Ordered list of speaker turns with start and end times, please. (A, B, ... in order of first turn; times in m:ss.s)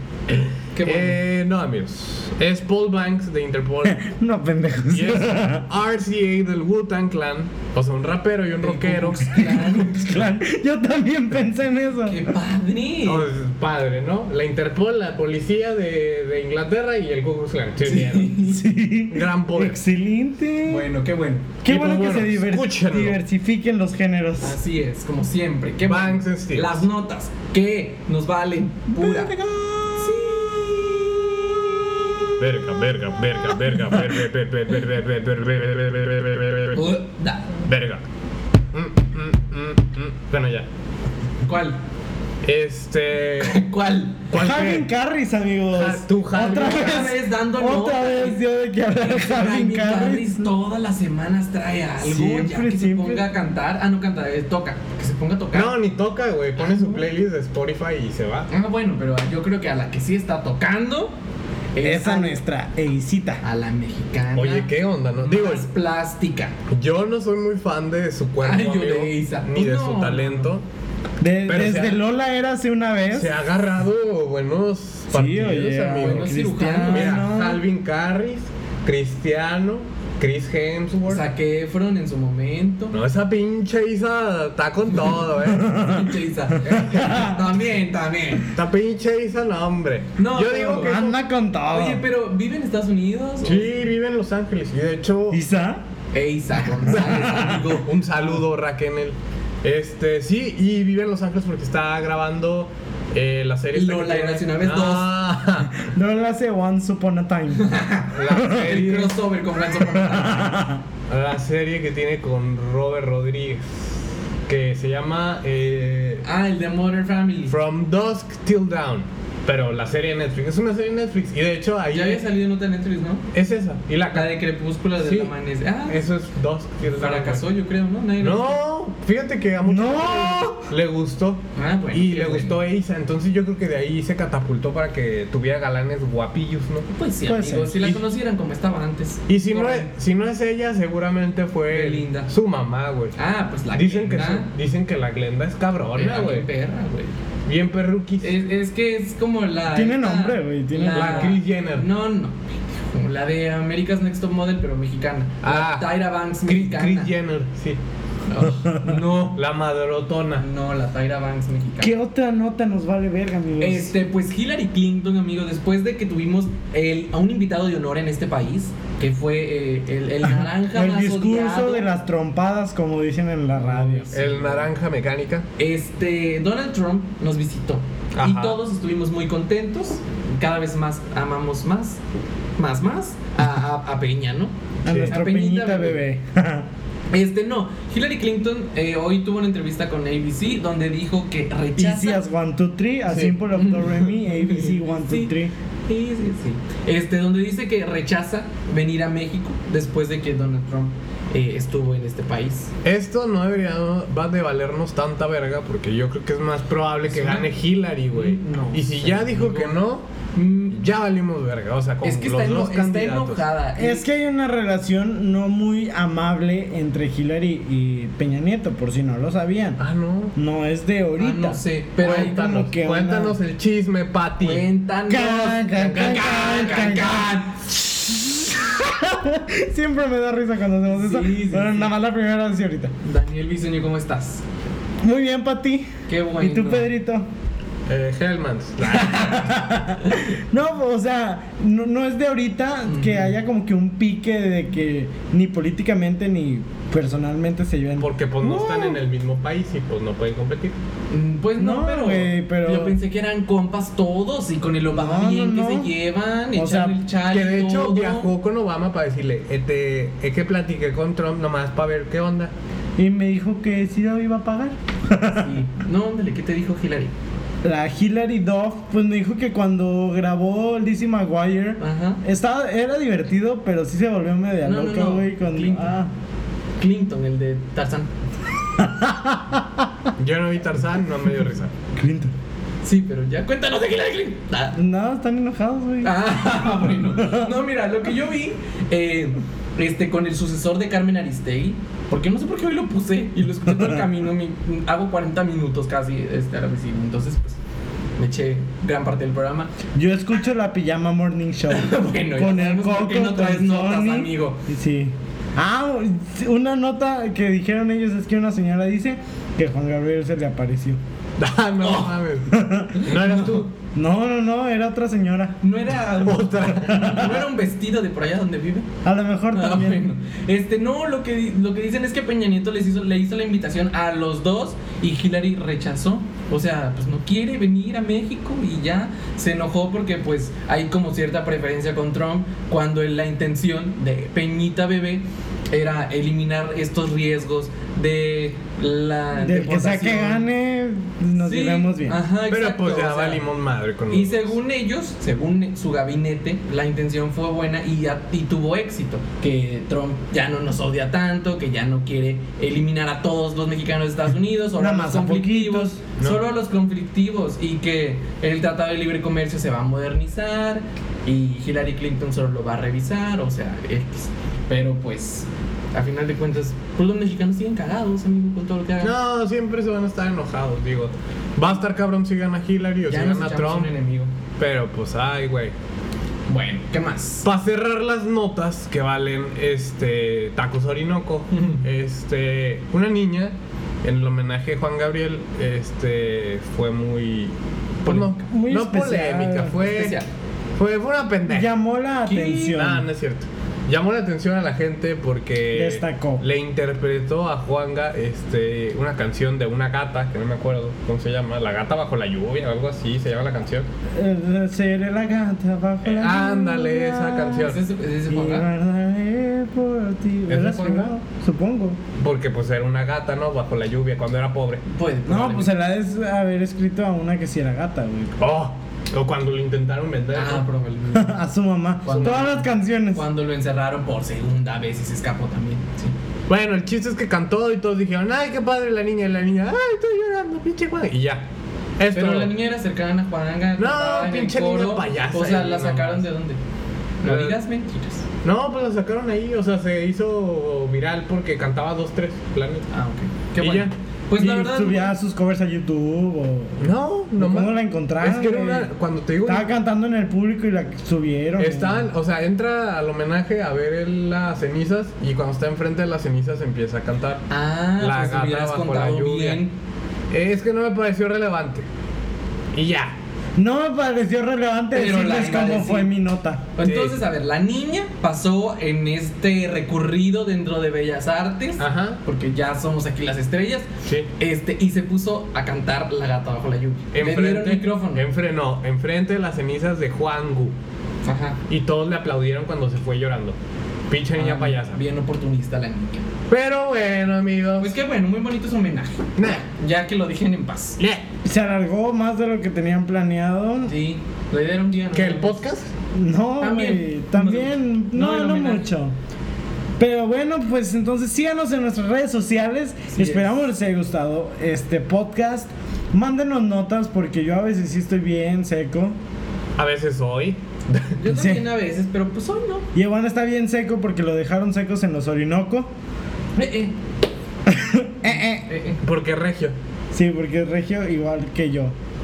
0:00.3-0:04.0 A
0:00.7-0:01.2 B
0:03.8-0:05.6 C
0:04.9-0:09.7 A
0:08.6-0:10.0 B
0:09.0-0:12.3 C
0:12.0-0:13.3 B
0:13.0-0:18.4 A
0:17.8-0:18.6 B
0:18.4-0:20.9 C
0:19.1-0:19.8 A
0:20.6-0:21.5 B
0:21.6-0:24.6 C
0:21.6-0:23.2 A
0:24.4-0:29.3 B
0:25.8-0:26.8 A
0:28.9-0:30.6 C
0:30.0-0:31.7 B
0:32.4-0:36.9 A
0:33.7-0:34.0 C
0:36.7-0:37.5 B
0:37.7-0:38.0 A
0:38.7-0:40.7 A
0:41.4-0:41.8 B
0:42.4-0:43.6 A
0:43.4-0:44.3 B
0:44.3-0:44.9 A
0:44.3-0:50.4 C
0:45.7-0:47.1 A
0:46.3-0:48.4 B
0:48.9-0:55.8 B
0:52.0-0:53.3 C
0:55.5-0:58.5 A
0:58.5-1:01.2 B
1:01.7-1:02.4 B
1:01.8-1:03.4 C
1:03.4-1:06.5 B
1:04.3-1:05.7 A
1:06.7-1:10.6 A
1:08.4-1:10.5 B
1:11.2-1:13.3 C
1:11.5-1:12.0 A
1:13.1-1:21.2 A
1:15.1-1:17.6 C
1:16.0-1:17.3 B
1:21.1-1:23.0 B
1:22.9-1:25.7 A
1:24.9-1:28.5 B
1:25.5-1:26.1 C
1:26.7-1:27.4 C
1:28.5-1:31.2 A
1:30.2-1:31.0 B
1:30.8-1:32.0 C
1:31.7-1:33.7 B
1:33.4-1:35.4 A
1:35.3-1:35.8 C
1:36.1-1:37.9 B
1:36.9-1:37.6 C
1:36.9-1:45.8 A
1:43.7-1:45.1 B
1:45.8-1:47.7 C
1:47.5-1:50.6 B
1:48.1-1:49.2 A
1:48.3-1:48.8 C
1:49.8-1:50.8 C
1:51.1-1:54.0 A
1:54.5-1:56.2 A
1:56.2-1:57.5 B
1:57.5-2:02.2 A
2:01.9-2:03.2 B
2:03.3-2:04.4 A
2:04.1-2:06.0 B
2:05.0-2:05.3 A
2:05.8-2:07.4 A
2:06.9-2:08.6 B
2:08.2-2:16.8 A
2:09.6-2:10.7 C
2:11.5-2:12.6 B
2:16.9-2:19.9 B
2:17.2-2:17.8 C
2:19.3-2:23.2 A
2:21.7-2:22.3 B
2:23.1-2:24.5 B
2:23.7-2:26.4 A
2:25.9-2:27.1 B
2:27.4-2:28.4 A
2:28.2-2:37.1 B
2:29.7-2:31.4 C
2:30.9-2:31.8 A
2:35.4-2:37.8 A
2:38.3-2:39.4 B
2:39.2-2:40.4 A
2:40.4-2:41.9 B
2:41.8-2:43.9 C
2:43.6-2:51.9 B
2:50.5-2:54.1 C
2:53.5-2:54.7 B
2:54.1-2:55.4 A
2:55.6-3:02.0 B
2:58.1-2:58.6 A
3:02.6-3:06.0 B
3:04.8-3:06.7 C
3:04.9-3:05.1 A
3:07.1-3:12.2 B
3:11.8-3:15.5 C
3:13.1-3:13.4 A
3:13.5-3:15.3 B
3:15.9-3:22.7 B
3:22.8-3:30.0 A
3:27.1-3:27.5 B
3:28.1-3:29.8 B
3:30.3-3:30.8 B
3:30.7-3:33.4 A
3:32.0-3:34.0 B
3:33.8-3:39.8 C
3:39.8-3:40.3 A
3:40.3-3:43.4 C
3:41.2-3:42.4 B
3:42.0-3:44.7 A
3:44.4-3:47.7 B
3:45.1-3:52.9 C
3:50.9-3:51.9 B
3:53.0-3:54.4 B
3:55.0-3:57.3 C
3:56.1-3:56.9 B
3:57.9-3:59.6 A
3:58.9-3:59.4 B
3:59.4-4:09.0 C
4:02.8-4:03.3 B
4:08.0-4:10.8 A
4:11.1-4:18.3 B
4:11.6-4:13.0 C
4:14.9-4:15.9 C
4:16.5-4:17.0 C
4:17.3-4:22.5 A
4:23.0-4:25.6 C
4:25.4-4:27.1 B
4:27.6-4:36.1 C
4:31.8-4:32.2 B
4:34.6-4:35.9 B
4:36.8-4:38.1 B
4:38.8-4:39.9 C
4:40.2-4:41.7 A
4:41.9-4:42.3 C
4:42.8-4:44.8 B
4:44.7-4:46.2 C
4:46.0-4:57.6 B
4:47.1-4:47.5 C
4:53.7-4:54.0 C
4:58.2-4:59.7 B
4:59.9-5:11.0 C
5:01.7-5:04.6 B
5:11.4-5:13.7 A
5:11.8-5:12.2 B
5:12.5-5:12.9 C
5:12.9-5:13.7 B
5:13.9-5:15.6 C
5:15.6-5:18.9 B
5:16.2-5:17.3 A
5:16.9-5:17.4 C
5:19.0-5:20.1 C
5:19.5-5:40.5 B
5:39.4-5:42.2 C
5:41.4-5:43.4 B
5:42.4-5:44.5 A
5:44.1-6:09.1 B
5:54.8-5:56.0 C
5:56.2-5:56.4 A
6:09.0-6:13.9 A
6:13.1-6:14.3 B
6:14.6-6:15.7 A
6:16.5-6:17.5 B
6:17.4-6:27.5 A
6:21.5-6:21.8 B
6:28.0-6:28.4 B
6:28.0-6:30.2 A
6:28.5-6:29.8 C
6:29.8-6:30.2 B
6:30.8-6:31.7 A
6:31.5-6:33.1 C
6:32.2-6:32.7 B
6:32.6-6:43.8 A
6:35.7-6:36.4 C
6:44.1-6:47.8 C
6:46.0-6:47.8 A
6:47.6-6:48.7 B
6:48.3-6:52.0 C
6:50.5-6:51.1 A
6:52.2-6:54.8 A
6:54.8-6:55.7 B
6:55.2-6:58.4 C
6:58.4-7:00.6 A
7:00.3-7:01.3 B
7:01.1-7:03.2 C
7:02.0-7:06.1 B
7:02.1-7:02.6 A
7:06.5-7:11.4 A
7:12.0-7:12.5 A
7:12.1-7:16.6 B
7:13.8-7:16.3 A
7:17.2-7:18.2 B
7:17.2-7:17.6 A
7:18.4-7:22.8 A
7:22.9-7:25.1 B
7:23.6-7:23.9 A
7:24.4-7:28.9 C
7:26.8-7:29.7 A
7:29.4-7:32.1 C
7:31.6-7:37.4 A
7:37.5-7:39.7 B
7:38.0-7:39.6 A
7:40.3-7:41.8 A
7:42.7-7:43.1 A
7:43.6-7:46.6 C
7:44.9-7:46.1 B
7:46.8-7:58.2 B
7:46.8-7:47.2 A
7:51.8-7:52.2 A
7:57.1-8:00.7 A
8:01.2-8:01.6 B
8:01.7-8:03.6 A
8:04.1-8:05.0 A
8:04.3-8:06.3 B
8:06.5-8:08.0 A
8:07.8-8:11.0 B
8:09.4-8:09.6 A
8:11.4-8:13.9 C
8:13.8-8:15.6 B
8:15.1-8:15.9 A
8:16.1-8:19.1 C
8:16.6-8:18.9 B
8:20.0-8:29.2 C
8:23.1-8:23.5 B
8:29.8-8:31.1 A
8:31.2-8:32.8 B
8:31.3-8:31.7 C
8:32.9-8:35.9 C
8:36.6-8:37.0 B
8:37.6-8:38.7 C
8:38.5-8:39.0 B
8:39.0-8:39.7 A
8:40.1-8:41.9 C